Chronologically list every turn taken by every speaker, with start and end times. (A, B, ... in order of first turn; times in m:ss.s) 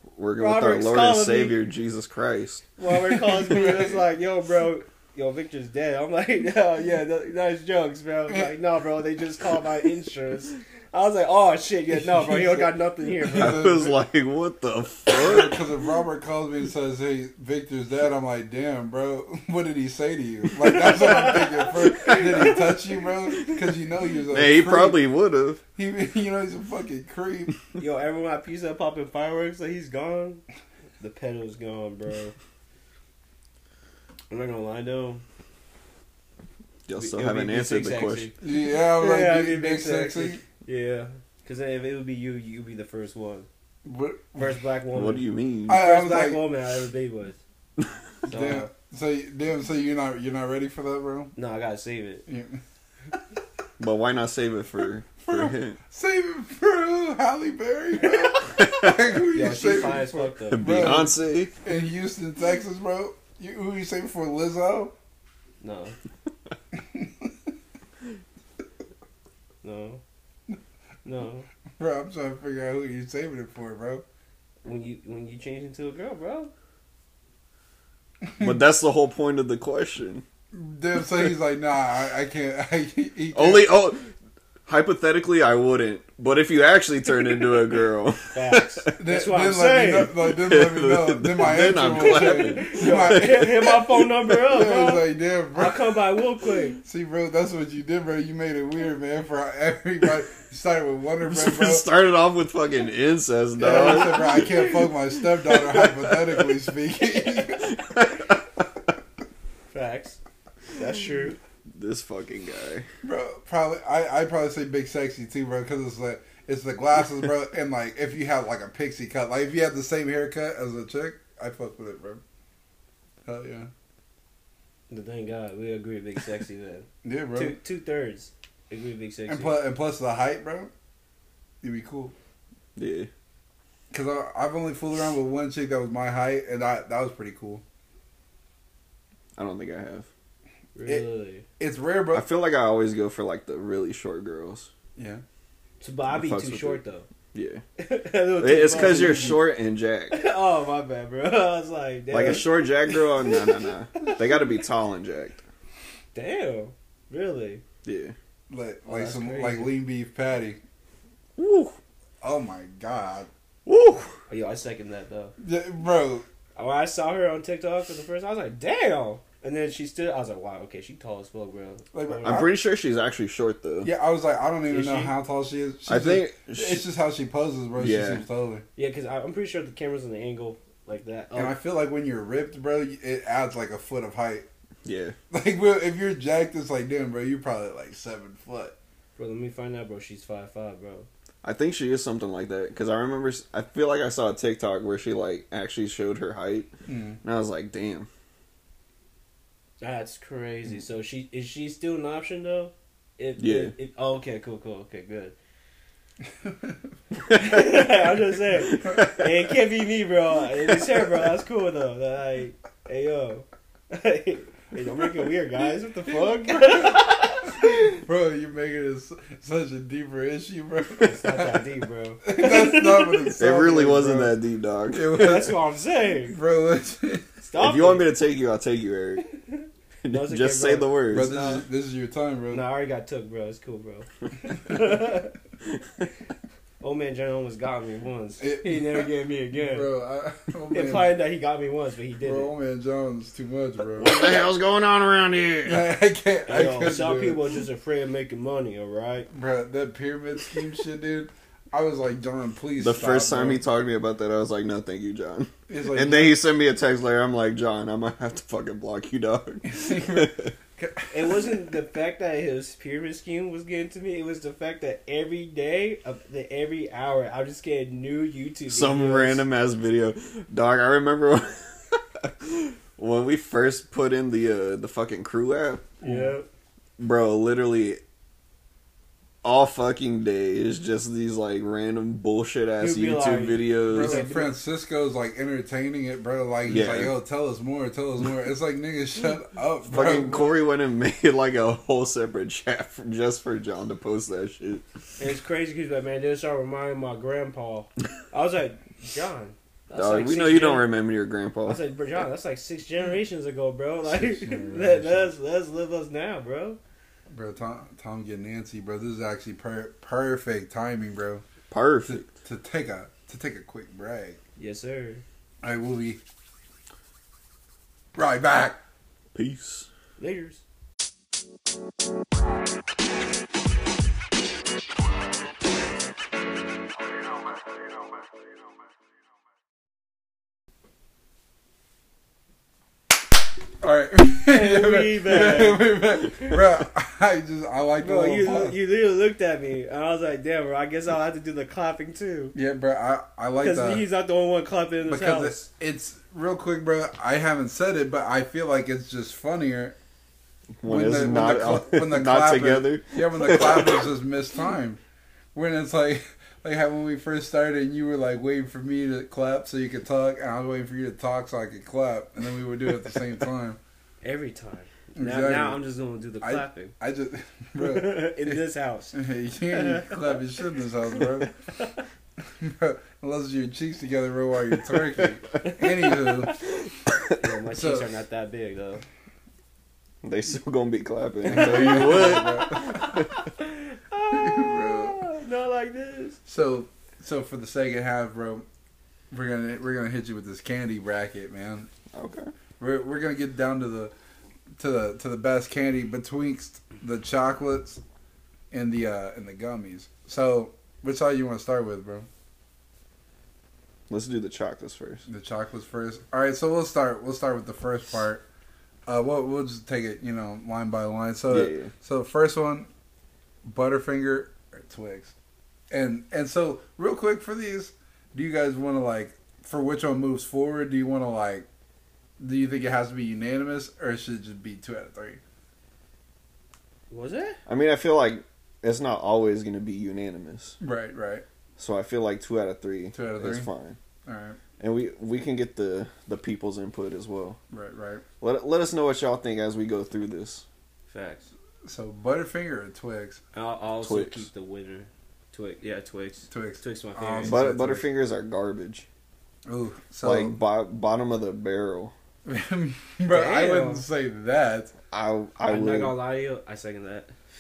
0:00.2-0:02.6 A
0:00.4-0:01.6 B
0:02.8-0:13.7 B
0:03.1-0:04.0 C
0:12.1-0:12.7 C
0:13.2-0:14.0 C
0:13.3-0:15.6 A
0:15.1-0:25.0 C
0:21.0-0:22.3 B
0:21.8-0:22.6 A
0:24.3-0:25.6 A
0:25.8-0:27.6 C
0:27.8-0:30.4 B
0:31.0-0:32.4 B
0:34.3-0:35.2 B
0:36.9-0:38.3 A
0:37.0-0:43.5 B
0:38.4-0:40.4 C
0:43.8-0:44.6 C
0:44.4-0:47.4 B
0:44.9-0:45.8 A
0:45.7-0:46.4 C
0:48.2-0:48.7 B
0:48.3-0:51.3 C
0:51.4-0:52.2 B
0:52.3-0:52.6 C
0:53.8-0:55.8 A
0:55.2-1:01.1 C
0:58.6-0:59.0 A
0:59.3-1:01.0 B
1:00.5-1:01.5 A
1:01.6-1:04.9 C
1:05.6-1:06.0 B
1:06.7-1:07.3 C
1:09.6-1:10.0 B
1:11.0-1:11.5 B
1:11.8-1:14.0 C
1:14.6-1:16.5 B
1:18.4-1:20.2 A
1:20.5-1:23.7 C
1:23.3-1:24.1 A
1:24.7-1:29.0 A
1:28.3-1:30.1 B
1:29.0-1:33.5 C
1:30.3-1:34.1 A
1:32.0-1:36.8 B
1:34.5-1:35.8 C
1:36.8-1:41.9 C
1:41.2-1:44.8 A
1:43.6-1:47.7 C
1:43.6-1:44.4 B
1:45.4-1:46.1 A
1:47.6-1:48.4 A
1:49.7-1:50.2 B
1:50.7-1:51.4 B
1:51.7-1:52.9 A
1:53.0-2:02.2 C
2:03.2-2:03.7 C
2:04.9-2:09.6 B
2:07.0-2:07.6 C
2:09.3-2:10.7 C
2:11.6-2:12.1 C
2:12.8-2:13.1 A
2:13.9-2:17.6 C
2:19.4-2:20.1 A
2:20.8-2:21.4 B
2:21.6-2:22.3 C
2:22.1-2:24.7 A
2:25.0-2:25.2 C
2:25.8-2:27.1 B
2:26.1-2:26.8 A
2:27.3-2:27.6 A
2:27.8-2:29.4 B
2:28.4-2:30.2 A
2:30.1-2:34.2 B
2:32.1-2:35.4 A
2:36.1-2:37.6 B
2:37.8-2:38.1 A
2:38.5-2:40.6 C
2:38.9-2:39.8 B
2:41.4-2:41.8 A
2:42.2-2:43.3 C
2:43.7-2:44.1 A
2:44.3-2:45.3 B
2:45.4-2:46.3 C
2:46.6-2:52.4 B
2:51.9-2:52.5 C
2:52.2-2:53.9 A
2:53.8-2:58.6 C
2:54.7-2:55.1 B
2:55.9-2:56.8 A
2:57.8-2:58.2 A
2:58.8-3:01.6 B
3:01.4-3:04.5 C
3:04.8-3:05.2 A
3:05.3-3:08.8 C
3:09.2-3:11.1 B
3:11.4-3:16.7 A
3:16.9-3:17.2 C
3:17.2-3:18.1 A
3:19.8-3:25.4 B
3:23.4-3:23.7 A
3:26.4-3:26.8 C
3:27.3-3:37.7 B
3:28.7-3:29.2 A
3:37.6-3:41.6 C
3:41.0-3:43.3 B
3:42.2-3:44.4 C
3:43.4-3:45.2 A
3:44.9-3:45.6 C
3:45.1-3:46.4 B
3:46.3-3:47.3 C
3:47.4-3:48.1 B
3:47.6-3:49.3 A
3:49.5-3:51.6 B
3:50.0-3:51.3 A
3:51.1-3:52.6 C
3:52.5-3:55.3 B
3:56.8-3:59.9 B
3:58.4-4:01.1 C
4:00.7-4:02.5 B
4:02.2-4:04.2 C
4:04.0-4:05.9 A
4:05.6-4:07.4 C
4:06.5-4:09.3 B
4:09.3-4:13.6 C
4:12.8-4:20.5 A
4:15.7-4:16.4 C
4:19.7-4:21.3 C
4:21.1-4:29.4 B
4:28.7-4:36.0 A
4:36.0-4:36.5 B
4:36.0-4:36.3 C
4:37.0-4:38.0 A
4:39.4-4:44.2 A
4:42.8-4:44.6 B
4:43.9-4:50.5 C
4:46.7-4:47.2 A
4:49.9-4:54.8 A
4:55.2-5:00.9 B
4:59.9-5:01.8 A
5:01.6-5:06.8 B
5:04.2-5:05.3 C
5:07.3-5:11.4 C
5:11.7-5:12.3 A
5:12.1-5:14.4 C
5:14.6-5:15.2 B
5:15.6-5:16.2 C
5:18.2-5:18.8 C
5:19.4-5:19.9 A
5:20.2-5:20.6 B
5:33.8-5:38.8 C
5:34.5-5:36.4 B
5:38.0-5:42.6 B
5:42.6-5:44.0 C
5:43.6-5:45.7 B
5:45.0-5:50.0 C
5:50.8-5:54.1 A
5:50.9-5:55.0 C
5:55.5-6:03.8 C
6:04.2-6:06.9 B
6:05.2-6:05.8 C
6:06.4-6:11.5 C
6:07.8-6:10.3 B
6:12.6-6:16.5 C
6:15.6-6:16.5 B
6:17.4-6:19.0 B
6:17.7-6:18.1 C
6:20.2-6:23.3 A
6:21.4-6:23.2 C
6:21.5-6:26.4 B
6:24.3-6:25.2 C
6:26.5-6:28.7 C
6:29.3-6:31.9 C
6:32.1-6:32.5 A
6:32.8-6:34.1 C
6:34.8-6:38.0 C
6:38.7-6:42.3 C
6:44.1-6:45.2 A
6:45.3-6:48.4 C
6:49.1-6:52.9 C
6:51.5-6:51.9 A
6:53.6-6:55.3 C
6:55.9-7:01.7 C
7:02.4-7:05.4 C
7:07.1-7:07.6 B
7:07.7-7:10.8 A
7:10.8-7:11.4 C
7:11.8-7:14.0 A
7:13.1-7:13.7 C
7:14.3-7:14.6 C
7:14.8-7:17.6 A
7:17.7-7:18.2 C
7:18.4-7:20.6 A
7:21.1-7:21.5 B
7:21.8-7:23.4 C
7:23.5-7:28.0 B
7:24.0-7:24.5 A
7:26.5-7:28.0 C
7:27.5-7:29.1 A
7:29.7-7:30.6 C
7:30.2-7:32.1 A
7:32.4-7:34.9 C
7:33.3-7:34.0 B
7:35.1-7:36.2 A
7:35.6-7:37.3 B